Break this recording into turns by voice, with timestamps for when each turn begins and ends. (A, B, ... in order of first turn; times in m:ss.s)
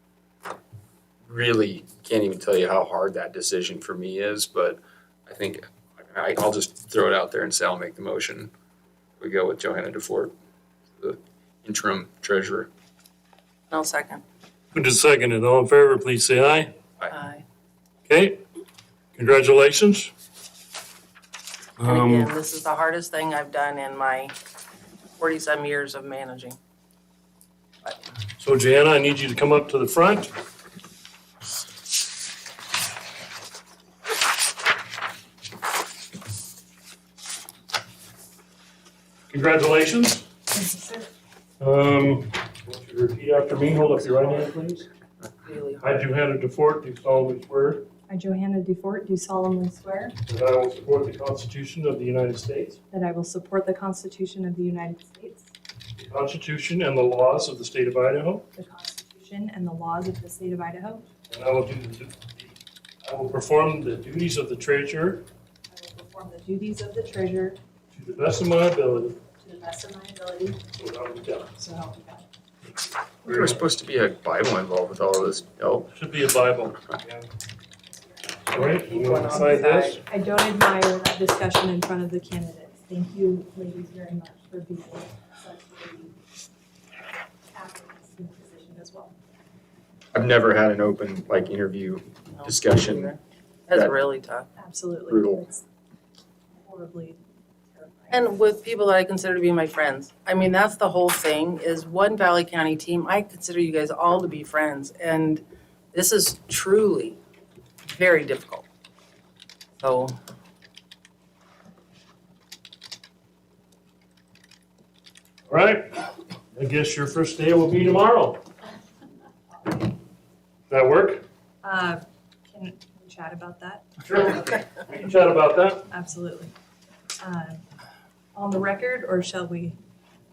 0:01.2-0:08.5 A
0:09.2-0:10.3 A
0:11.0-0:12.7 A
0:13.7-0:14.2 B
0:14.7-0:16.7 C
0:17.1-0:17.4 B
0:18.1-0:18.4 C
0:19.2-0:20.1 C
0:21.8-0:22.3 C
0:21.8-0:24.4 B
0:25.2-0:26.6 B
0:28.4-0:30.3 C
0:39.3-0:40.3 C
0:40.5-0:41.1 D
0:41.6-0:44.9 C
0:45.4-0:46.0 B
0:45.8-0:47.9 C
0:48.1-0:50.2 D
0:50.3-0:52.8 C
0:52.9-0:55.5 D
0:56.0-0:58.4 C
0:58.5-1:01.1 D
1:01.3-1:05.3 C
1:05.7-1:07.6 D
1:07.9-1:09.2 C
1:09.4-1:10.6 D
1:10.8-1:11.5 C
1:11.6-1:12.2 D
1:13.2-1:13.6 C
1:13.3-1:15.9 A
1:15.9-1:17.3 C
1:18.5-1:20.0 C
1:18.5-1:20.0 B
1:20.1-1:26.2 D
1:27.5-1:29.2 D
1:30.1-1:33.1 A
1:32.4-1:34.5 B
1:34.6-1:35.6 D
1:35.1-1:35.5 A
1:36.6-1:37.2 D
1:37.7-1:38.3 D
1:38.1-1:47.2 B
1:47.9-1:48.6 B
1:49.8-1:50.2 B
1:55.5-1:58.4 C
1:59.6-1:59.9 D
2:00.7-2:01.2 C
2:01.6-2:03.9 D
2:04.0-2:05.9 C
2:05.9-2:06.5 D
2:07.2-2:07.6 D
2:08.4-2:09.8 D